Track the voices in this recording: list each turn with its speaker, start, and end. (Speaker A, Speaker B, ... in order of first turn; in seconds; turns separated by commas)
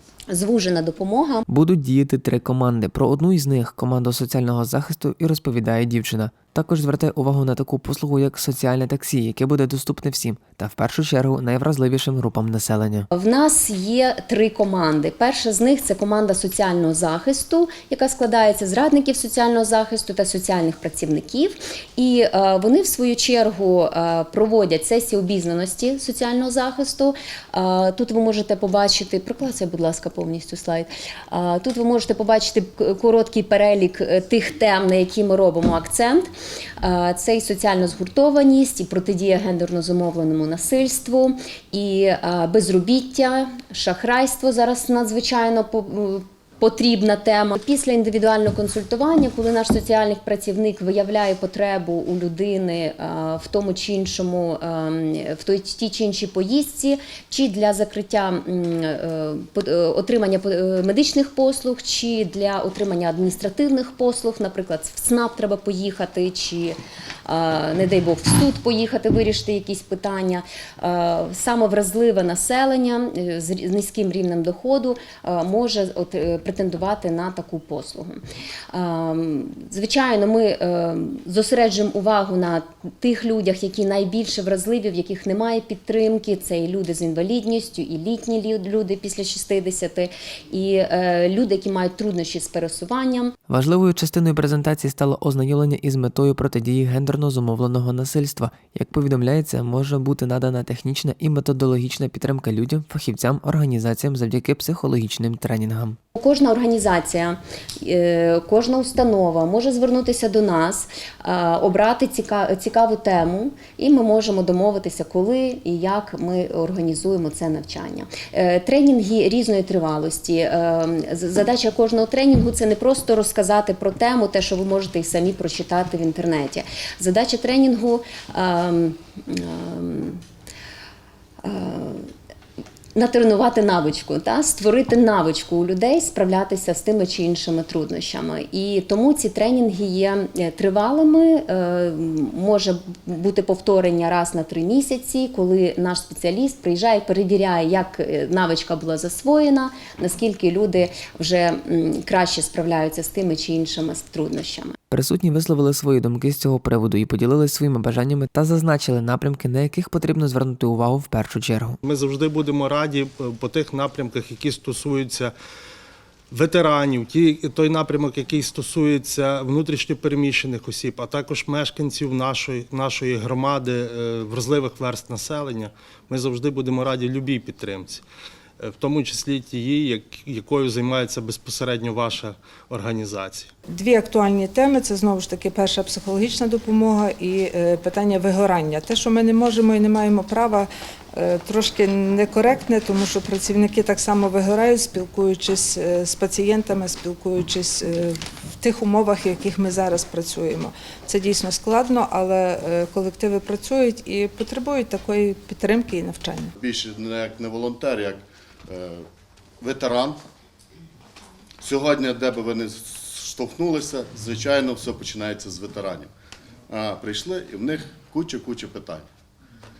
Speaker A: 0.3-1.4, Speaker B: 1.5-13.1, Speaker A: 13.1-36.2, Speaker A: 36.8-78.2, Speaker A: 78.7-93.3, Speaker B: 93.5-106.0, Speaker A: 106.1-130.2, Speaker A: 131.4-132.1, Speaker A: 132.9-154.7, Speaker B: 154.9-161.8, Speaker C: 161.8-165.3, Speaker C: 166.3-178.0, Speaker C: 178.6-183.5, Speaker D: 183.7-206.5, Speaker E: 206.6-209.1, Speaker E: 209.6-210.2, Speaker E: 211.6-216.1, Speaker E: 216.7-219.1